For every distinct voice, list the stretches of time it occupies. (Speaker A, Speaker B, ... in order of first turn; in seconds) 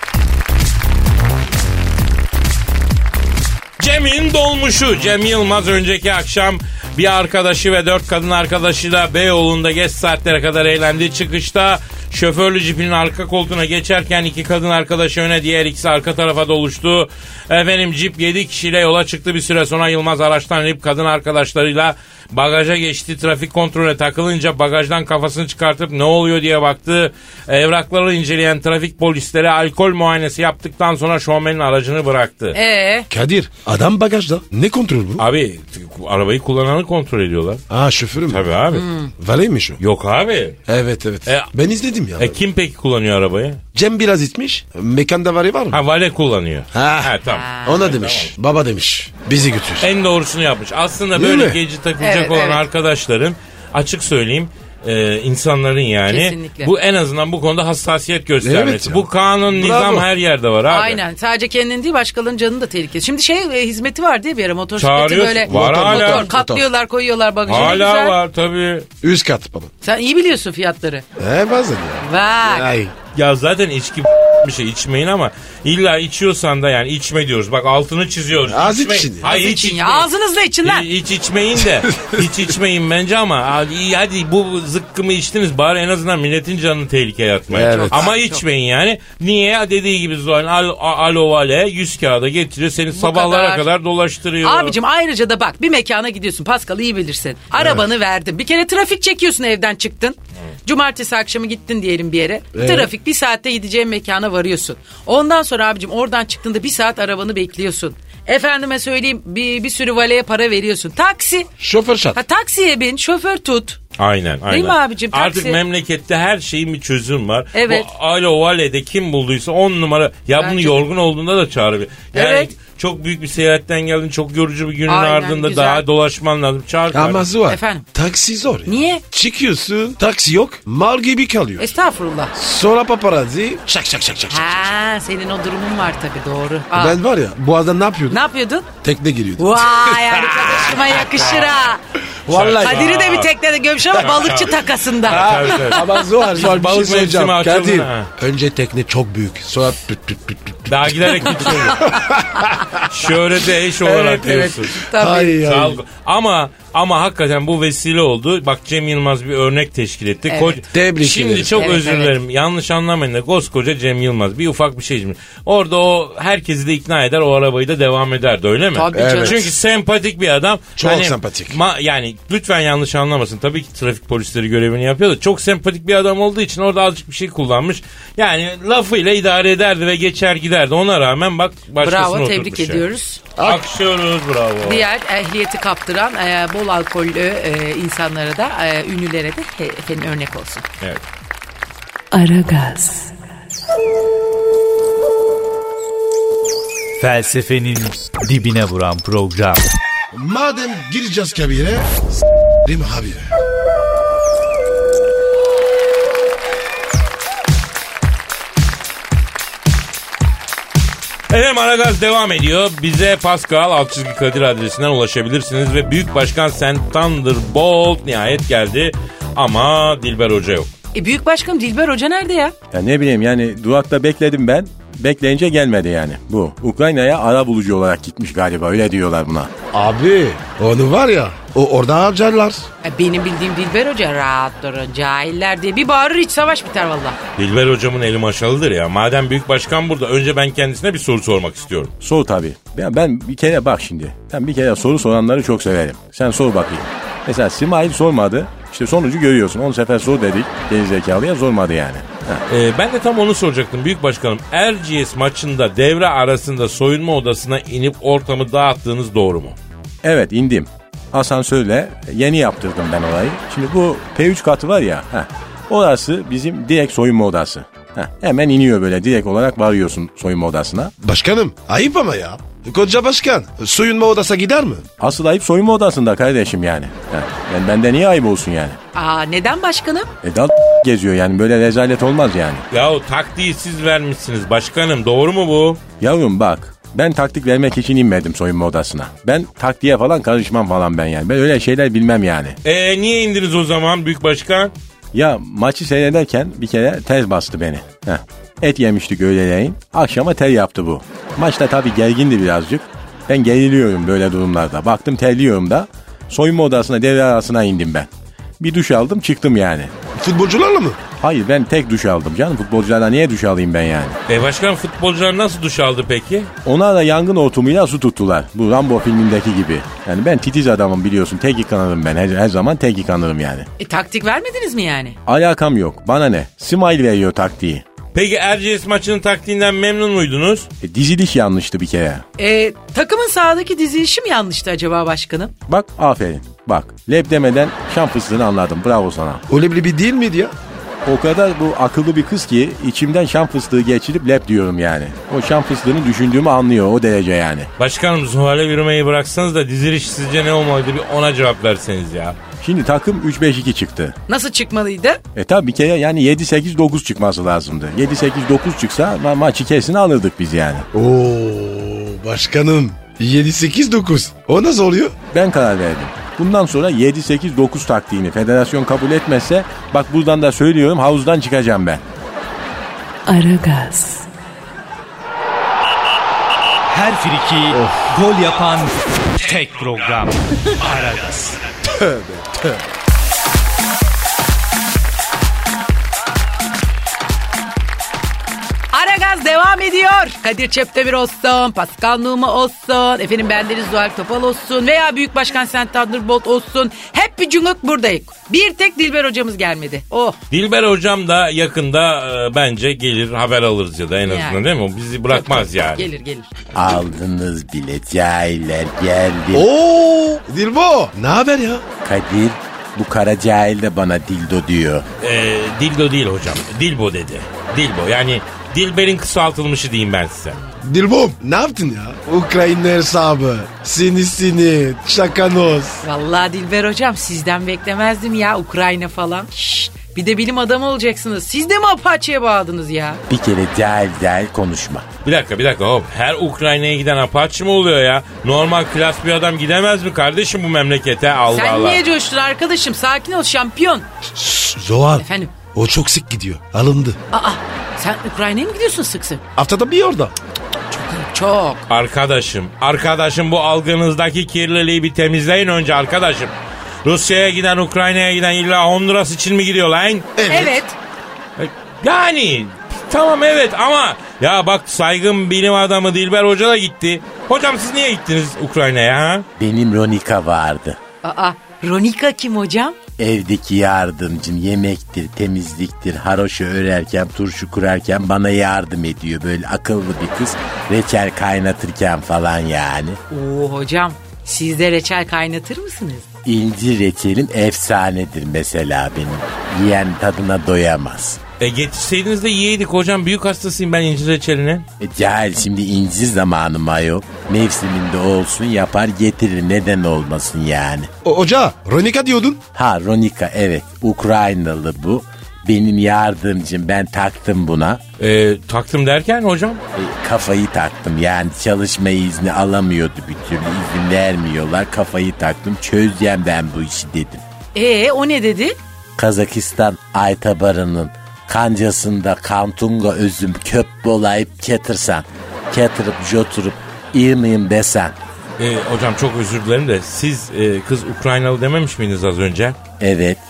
Speaker A: 3.8-32.6, 35.2-37.6, 38.3-38.9, 39.8-40.6, 42.2-43.6, 45.7-48.3, 49.8-61.0, 64.8-66.3, 67.5-68.9, 73.1-80.1, 80.6-94.8, 114.0-127.2, 142.3-143.3, 143.9-148.1, 150.7-151.9, 152.8-154.8, 155.4-182.8, 183.4-184.8, 211.3-220.7, 237.4-241.9, 252.5-259.6, 282.7-285.8, 292.6-294.7, 314.3-316.5, 328.1-330.7, 347.8-352.4, 400.5-406.0, 415.2-420.6, 435.2-442.0, 451.9-456.5, 457.0-460.7, 461.6-469.4, 491.6-494.9, 508.2-509.8, 528.6-532.8
Speaker B: 32.5-33.1, 38.7-39.1, 47.2-47.9, 52.0-52.6, 56.1-56.7, 60.7-68.2, 69.8-71.0, 72.0-72.7, 79.2-80.8, 87.6-88.4, 92.9-93.7, 94.4-111.5, 112.1-113.8, 114.5-115.6, 117.5-117.8, 120.4-120.8, 122.1-122.5, 124.9-125.8, 127.5-127.8, 128.7-129.0, 131.6-132.3, 134.3-137.0, 138.1-138.7, 139.4-141.8, 142.5-145.9, 151.7-152.5, 154.8-155.4, 160.3-160.6, 161.5-162.1, 168.7-169.5, 181.8-183.2, 184.6-190.6, 220.9-222.5, 232.8-237.2, 278.9-280.1, 323.8-325.2, 332.4-335.5, 354.3-355.2, 388.9-400.4, 404.2-404.6, 405.3-406.5, 426.0-433.2, 441.5-444.1, 445.2-445.5, 447.3-449.4, 450.9-451.9, 460.5-460.9, 471.2-472.9, 483.3-486.2, 517.7-518.8
Speaker C: 33.1-35.2, 37.7-38.4, 39.2-39.8, 40.7-42.4, 43.7-45.8, 46.7-49.9, 51.1-51.6, 58.4-60.1, 65.5-66.7, 67.5-67.8, 69.0-69.7, 71.2-72.9, 78.5-79.3, 81.9-82.2, 87.5-88.1, 97.5-97.8, 102.5-102.9, 111.6-112.2, 126.9-131.7, 132.3-134.7, 136.7-138.2, 138.8-141.5, 142.2-143.0, 145.1-153.1, 153.6-155.8, 160.7-161.7, 168.9-169.5, 170.8-171.6, 183.4-183.6, 200.1-201.9, 202.6-203.3, 229.7-232.7, 271.0-274.9, 310.1-311.0, 339.5-340.5, 360.9-365.1, 377.7-378.0, 381.9-382.8, 409.5-411.8, 420.8-426.0, 444.3-447.2, 449.6-450.3, 460.4-460.8, 501.2-502.6
Speaker D: 192.1-193.1, 373.2-374.3
Speaker E: 197.0-199.6, 376.9-381.6
Speaker F: 222.7-229.5, 242.0-252.4, 260.0-270.9, 275.0-278.8, 280.2-282.6, 286.0-292.6, 295.1-308.1, 308.6-309.9, 311.2-314.2, 316.6-323.7, 325.2-327.8, 330.8-332.2, 335.7-339.4, 341.0-347.7, 352.6-354.2, 355.3-360.9, 365.3-372.0, 406.7-409.7, 412.0-415.1, 433.3-435.1, 469.6-471.0, 473.2-483.2, 486.4-491.4, 495.0-501.1, 502.7-508.0, 509.9-517.4, 519.2-528.1, 533.0-533.4